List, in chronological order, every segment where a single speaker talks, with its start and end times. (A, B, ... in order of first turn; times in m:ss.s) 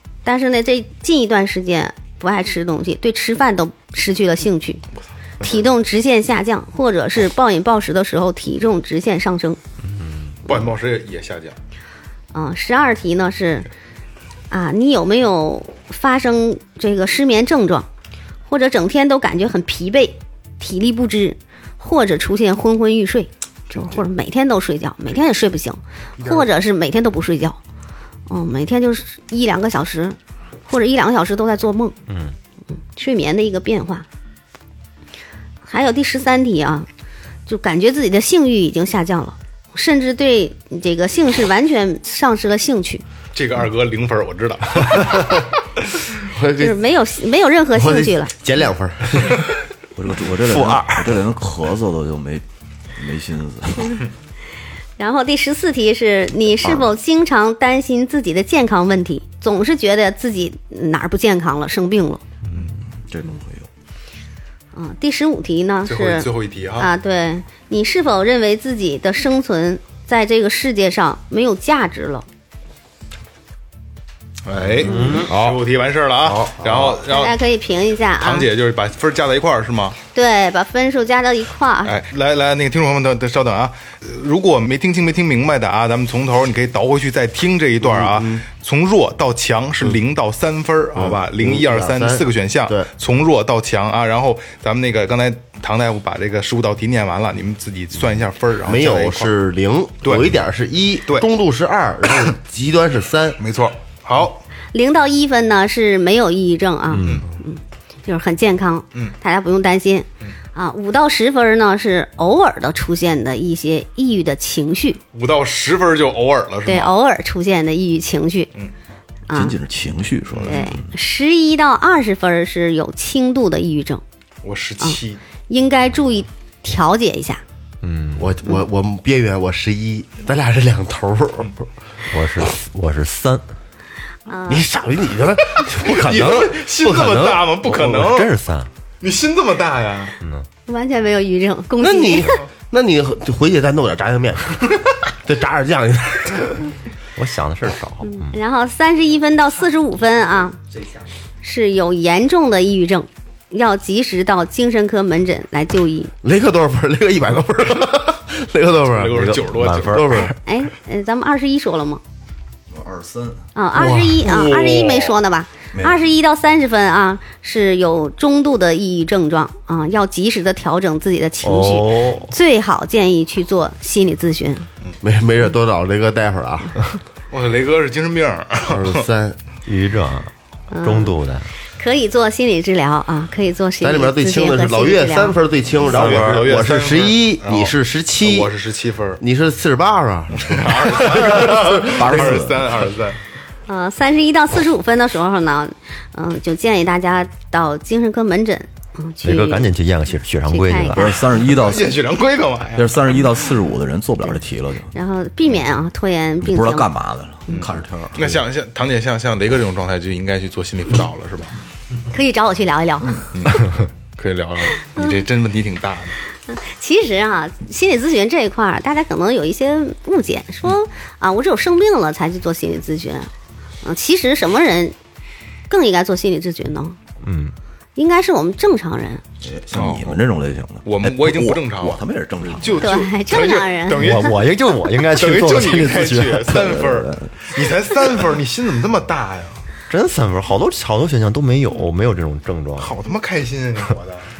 0:00.2-0:04.8 A
0:05.4-0:09.6 A
0:10.0-0:10.3 B
0:10.4-0:11.6 C
0:12.3-0:13.7 A
0:14.5-0:17.9 A
0:18.5-0:27.6 A
0:28.3-0:32.0 A
0:32.1-0:32.4 B
0:32.9-0:34.1 A
0:35.6-0:36.9 A
0:37.5-0:43.0 A
0:43.3-0:45.4 C
0:46.3-0:46.8 D
0:46.6-0:48.3 A
0:47.7-0:49.4 D
0:49.9-0:52.4 E
0:50.5-0:51.1 B
0:53.0-0:54.0 E
0:55.0-1:02.2 A
1:02.6-1:03.7 E
1:04.7-1:12.2 A
1:05.8-1:06.9 C
1:14.4-1:17.4 C
1:14.8-1:15.5 B
1:16.7-1:18.5 A
1:18.2-1:20.0 C
1:20.1-1:22.0 A
1:21.8-1:39.3 C
1:27.8-1:28.5 D
1:31.0-1:32.9 D
1:38.6-1:43.4 D
1:40.0-1:40.3 C
1:43.4-1:44.4 C
1:44.7-1:55.0 A
1:46.9-1:47.2 B
1:55.1-1:56.9 C
1:56.6-1:58.5 A
1:59.3-1:59.5 A
1:59.3-2:00.9 E
2:00.3-2:00.6 C
2:00.4-2:04.0 A
2:04.4-2:05.2 C
2:04.8-2:07.4 A
2:07.8-2:08.3 B
2:08.2-2:11.6 D
2:12.1-2:13.4 B
2:14.3-2:14.7 A
2:14.5-2:17.5 D
2:15.6-2:18.3 C
2:17.7-2:18.7 B
2:19.0-2:20.2 C
2:20.2-2:20.4 B
2:20.7-2:22.4 A
2:21.8-2:26.7 D
2:27.2-2:28.4 B
2:28.1-2:30.6 A
2:31.4-2:36.1 A
2:36.2-2:40.4 D
2:38.9-2:40.3 C
2:39.2-2:40.3 B
2:40.4-2:42.0 A
2:42.7-2:43.4 E
2:43.5-2:54.7 A
2:43.7-2:44.8 D
2:45.7-2:46.0 E
2:51.4-2:52.3 B
2:55.0-2:56.8 D
2:57.3-2:59.0 C
2:58.7-2:59.4 D
2:59.6-3:01.5 B
3:00.7-3:01.1 A
3:01.7-3:05.4 A
3:03.8-3:08.5 D
3:05.8-3:09.2 C
3:05.8-3:06.5 B
3:09.2-3:12.1 D
3:10.3-3:13.2 C
3:11.4-3:12.6 E
3:13.7-3:19.7 A
3:19.2-3:21.1 B
3:20.5-3:21.1 A
3:20.9-3:21.9 E
3:21.3-3:23.2 C
3:22.8-3:24.9 E
3:24.9-3:26.9 A
3:26.4-3:28.4 E
3:27.5-3:31.5 C
3:32.1-3:33.3 A
3:33.3-3:36.2 C
3:36.5-3:43.3 A
3:43.8-3:45.0 A
3:45.7-3:47.0 A
3:47.2-3:47.5 B
3:48.0-3:49.2 A
3:49.4-3:53.0 E
3:49.7-3:50.2 C
3:50.8-3:54.4 C
3:52.8-3:54.3 A
3:54.0-3:56.7 B
3:55.1-3:59.6 C
3:56.5-3:57.3 E
3:59.9-4:03.0 B
4:02.8-4:04.3 C